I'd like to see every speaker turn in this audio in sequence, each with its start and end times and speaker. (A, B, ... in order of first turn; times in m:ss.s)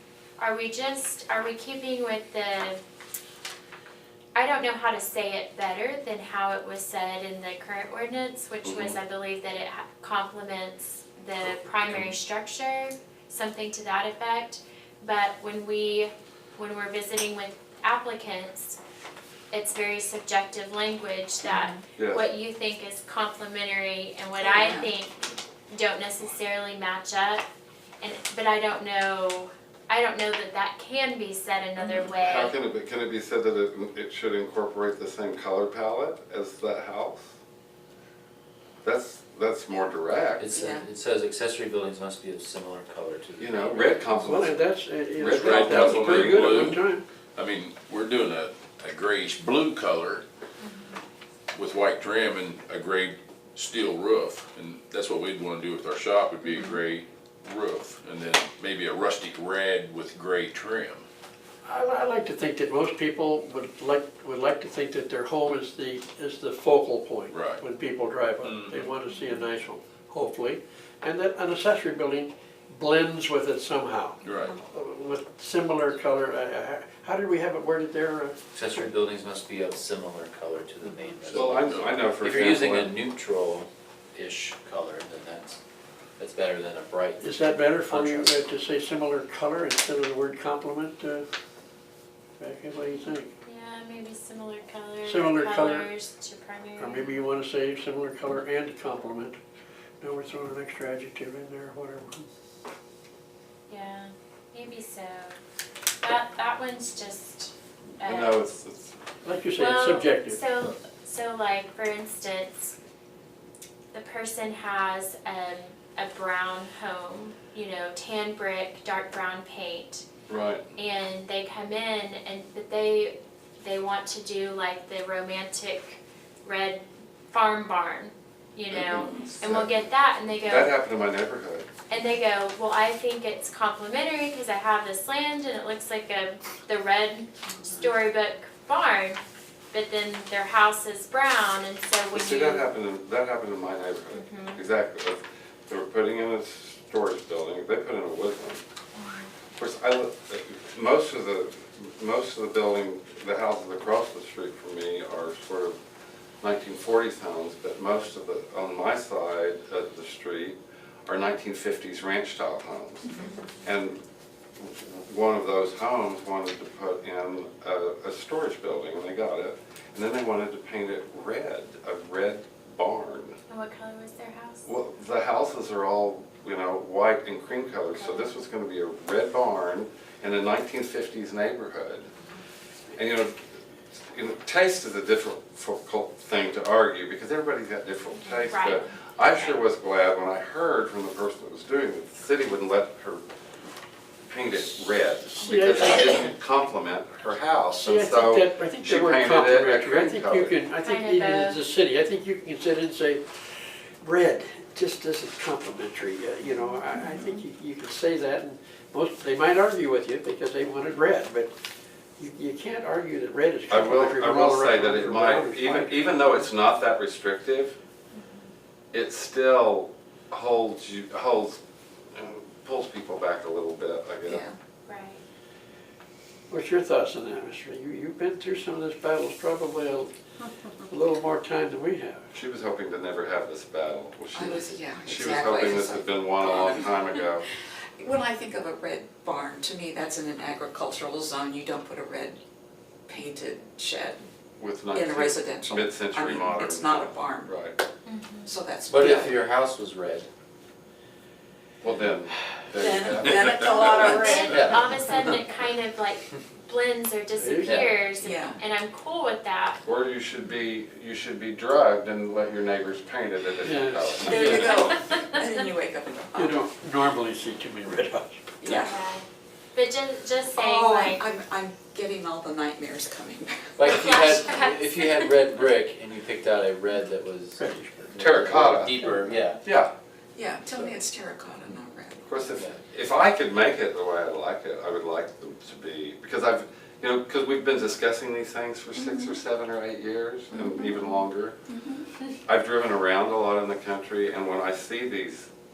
0:00.4-0:02.8 A
0:04.4-0:18.8 A
0:08.6-0:09.0 B
0:19.5-0:27.4 A
0:21.5-0:21.8 C
0:22.0-0:22.2 B
0:24.4-0:24.9 C
0:28.0-0:32.5 A
0:32.0-0:37.3 B
0:38.8-0:40.5 B
0:40.4-0:44.2 D
0:40.5-0:40.9 C
0:43.4-0:44.6 B
0:44.1-0:47.0 E
0:45.2-0:46.8 B
0:45.4-0:46.8 F
0:47.4-0:50.2 F
0:50.6-0:50.9 A
0:51.5-1:01.0 F
0:56.4-0:56.7 A
1:01.6-1:18.9 E
1:07.3-1:07.6 F
1:08.4-1:08.9 F
1:14.2-1:14.5 F
1:18.5-1:25.6 D
1:21.3-1:22.9 B
1:21.3-1:21.9 F
1:26.2-1:27.2 D
1:27.2-1:31.2 E
1:27.9-1:28.3 D
1:32.4-1:33.3 E
1:33.4-1:37.2 A
1:35.0-1:35.9 E
1:36.8-1:39.4 E
1:40.0-1:42.3 E
1:43.7-1:45.4 A
1:46.0-1:48.5 A
1:48.0-1:48.9 B
1:49.2-1:50.4 E
1:49.6-1:52.8 A
1:53.9-2:00.0 A
2:00.3-2:00.7 B
2:00.7-2:10.7 A
2:08.7-2:09.9 B
2:09.0-2:09.4 C
2:10.4-2:11.7 B
2:11.9-2:19.2 A
2:19.7-2:22.7 A
2:22.1-2:28.6 B
2:24.1-2:24.6 A
2:29.0-2:29.3 A
2:29.6-2:35.8 B
2:36.4-2:44.0 B
2:44.6-2:53.4 B
2:53.5-2:54.7 A
2:54.6-3:02.1 B
2:58.0-2:58.4 A
3:02.9-3:03.4 B
3:04.1-3:13.2 B
3:08.5-3:09.6 A
3:14.3-3:20.5 B
3:15.2-3:16.3 E
3:17.7-3:31.5 E
3:20.8-3:21.6 A
3:32.2-3:36.3 E
3:33.7-3:37.8 B
3:38.1-3:38.5 A
3:38.9-3:41.6 B
3:42.1-3:44.4 B
3:44.2-3:44.6 C
3:44.8-3:45.2 A
3:46.5-3:50.1 E
3:50.9-3:52.2 E
3:52.3-3:57.4 B
3:54.3-3:57.2 C
3:58.0-4:02.4 C
4:03.1-4:04.2 C
4:04.6-4:07.8 B
4:04.9-4:07.5 C
4:08.0-4:08.5 A
4:08.4-4:09.2 C
4:08.9-4:10.3 D
4:09.0-4:09.3 B
4:11.8-4:14.4 B
4:12.8-4:15.0 C
4:14.0-4:19.8 A
4:17.3-4:17.9 E
4:18.2-4:18.6 C
4:19.8-4:24.9 B
4:23.6-4:24.8 E
4:24.2-4:26.6 C
4:24.5-4:25.4 A
4:26.3-4:28.8 E
4:28.6-4:29.0 C
4:28.7-4:31.2 A
4:30.5-4:34.7 C
4:33.8-4:35.3 A
4:34.0-4:37.6 D
4:37.6-4:39.4 E
4:38.1-4:39.6 D
4:38.2-4:39.1 B
4:39.6-4:39.9 B
4:40.4-4:42.5 C
4:40.7-4:40.9 E
4:42.2-4:51.6 B
4:49.0-4:49.4 C
4:50.6-4:51.0 C
4:51.7-4:52.1 C
4:52.4-4:55.5 B